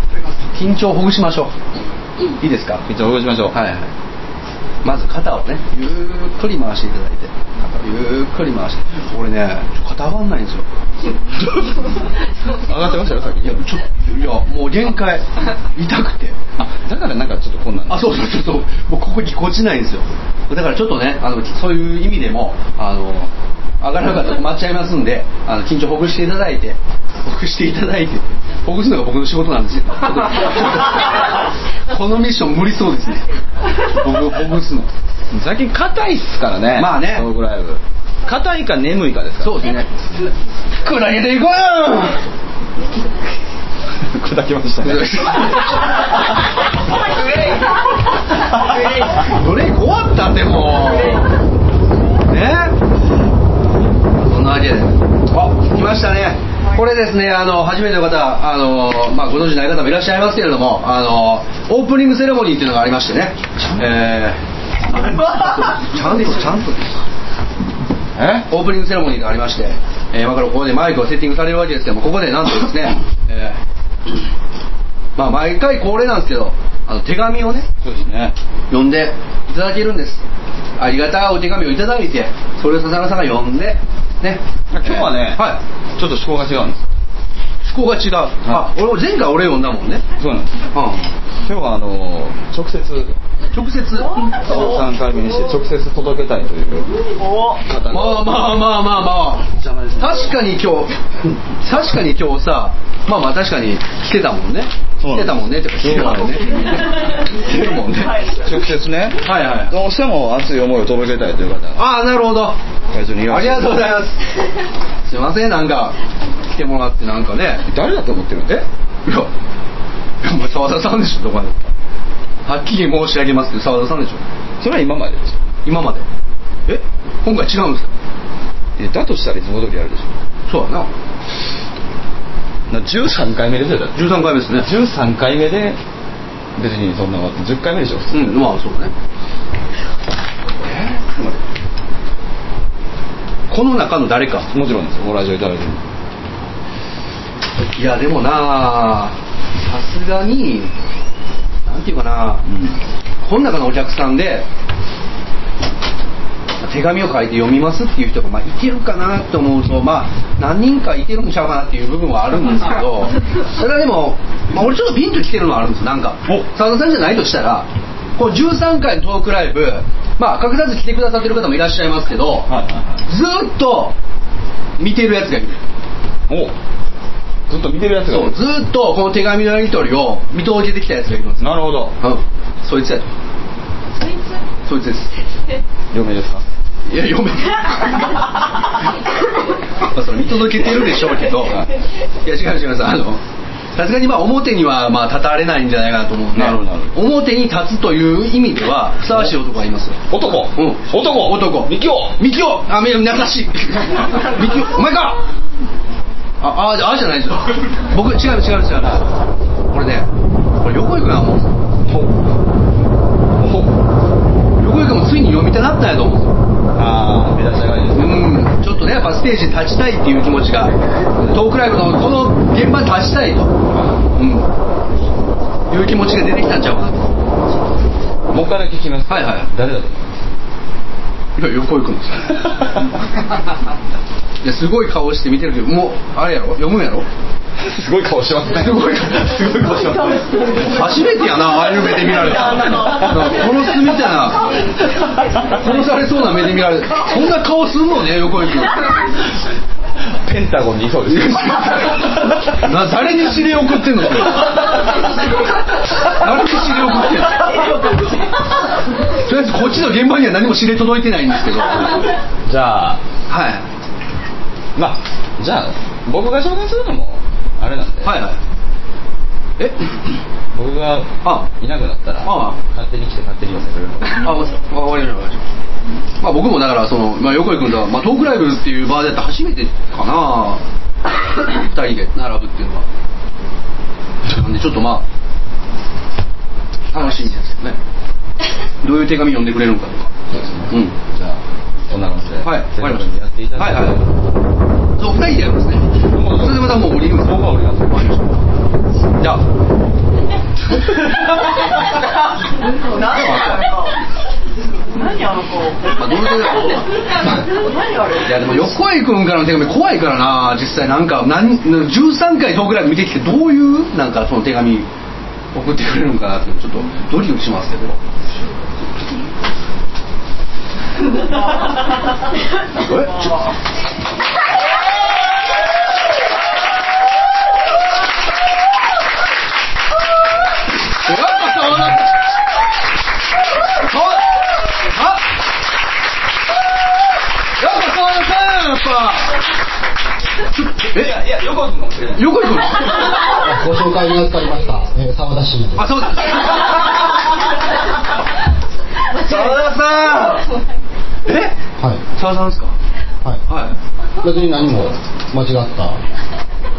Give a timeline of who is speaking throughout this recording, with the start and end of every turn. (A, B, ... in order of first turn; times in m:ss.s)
0:00.5-0:01.5 A
0:02.4-0:02.8 A
0:02.8-0:03.6 B
0:03.5-0:03.9 A
0:04.8-0:10.6 A
0:12.6-0:13.6 B
0:13.4-0:16.4 A
0:16.6-0:18.2 B
0:17.9-0:31.1 A
0:31.9-0:33.2 A
0:33.8-0:34.9 A
0:35.3-0:39.6 B
0:36.8-0:37.3 A
0:39.4-0:39.9 A
0:40.8-0:42.2 A
0:44.0-0:45.5 B
0:44.8-0:45.7 A
0:47.1-0:47.7 C
0:49.2-0:51.3 A
0:52.3-0:52.7 A
0:54.2-1:06.8 A
1:08.1-1:08.5 B
1:08.5-1:13.6 A
1:15.2-1:17.7 A
1:17.8-1:18.3 B
1:18.7-1:20.2 A
1:20.8-1:25.6 A
1:24.7-1:26.8 B
1:27.6-1:30.0 A
1:30.2-1:30.6 B
1:30.7-1:31.0 A
1:31.4-1:33.2 B
1:33.5-1:34.2 A
1:34.4-1:36.9 B
1:37.2-1:37.6 C
1:37.6-1:38.5 B
1:37.9-1:40.9 A
1:39.5-1:40.2 B
1:41.5-1:48.2 A
1:45.0-1:46.6 B
1:48.3-1:51.8 B
1:49.2-1:49.7 A
1:51.8-1:52.6 A
1:52.9-1:53.9 B
1:53.3-1:54.2 A
1:55.0-1:56.0 A
1:56.5-1:57.6 A
1:57.6-1:58.6 B
1:58.5-1:59.3 A
2:00.2-2:01.7 A
2:02.4-2:04.2 A
2:04.6-2:05.4 B
2:05.6-2:06.0 A
2:06.7-2:07.9 A
2:08.8-2:10.1 B
2:10.5-2:10.9 A
2:12.7-2:15.8 B
2:13.9-2:14.7 A
2:16.6-2:18.5 B
2:18.1-2:18.9 A
2:20.6-2:21.4 A
2:23.5-2:24.5 A
2:24.5-2:25.8 B
2:27.7-2:30.7 A
2:31.6-2:32.4 A
2:32.5-2:32.8 B
2:33.2-2:34.5 A
2:36.6-2:52.5 A
2:52.5-2:53.0 B
2:53.0-2:53.9 A
2:54.8-2:55.6 A
2:56.3-2:56.5 B
2:57.5-2:58.4 B
2:58.1-3:03.1 A
3:01.4-3:01.9 B
3:04.6-3:05.1 A
3:05.9-3:06.4 B
3:06.9-3:08.2 A
3:09.8-3:11.6 A
3:12.2-3:13.2 A
3:13.7-3:25.2 A
3:16.3-3:17.0 B
3:19.1-3:19.4 B
3:20.1-3:22.2 B
3:26.4-3:29.1 A
3:29.7-3:31.5 A
3:31.8-3:32.2 B
3:33.4-3:33.7 B
3:34.6-3:36.4 A
3:36.7-3:38.4 B
3:37.9-3:43.5 A
3:44.1-3:44.5 A
3:45.7-3:47.0 A
3:48.3-3:50.3 B
3:49.1-3:49.5 A
3:51.4-3:52.5 A
3:54.4-3:57.1 A
3:57.6-4:00.7 B
3:58.6-3:59.3 A
4:00.6-4:04.6 A
4:02.4-4:03.4 B
4:05.5-4:08.9 A
4:10.2-4:12.6 B
4:11.1-4:14.6 A
4:16.1-4:17.7 A
4:19.2-4:22.1 A
4:22.4-4:23.0 B
4:23.3-4:23.6 A
4:24.7-4:28.2 B
4:28.0-4:28.4 A
4:30.5-4:34.3 B
4:32.2-4:32.6 A
4:34.1-4:35.4 A
4:36.2-4:40.6 A
4:41.5-4:42.9 A
4:44.2-4:45.0 A
4:46.9-4:47.8 A
4:48.8-4:50.1 A
4:50.3-4:54.1 B
4:50.7-4:51.0 A
4:52.4-4:54.0 A
4:55.0-4:58.4 A
4:56.1-4:58.2 B
5:02.8-5:03.9 C
5:03.1-5:03.7 A
5:04.9-5:05.9 C
5:05.9-5:07.4 A
5:07.4-5:08.4 C
5:08.2-5:14.9 A
5:15.5-5:18.0 A
5:22.8-5:23.4 A
5:31.0-5:32.0 A
5:33.8-5:35.2 A
5:37.6-5:39.3 A
5:40.5-5:41.2 A
5:40.9-5:42.2 B
5:42.1-5:43.3 A
5:43.3-5:45.9 D
5:45.8-5:46.7 A
5:49.1-5:50.4 A
5:51.2-5:51.6 A
5:52.1-5:52.7 A
5:53.5-5:53.7 A
5:54.2-5:56.0 D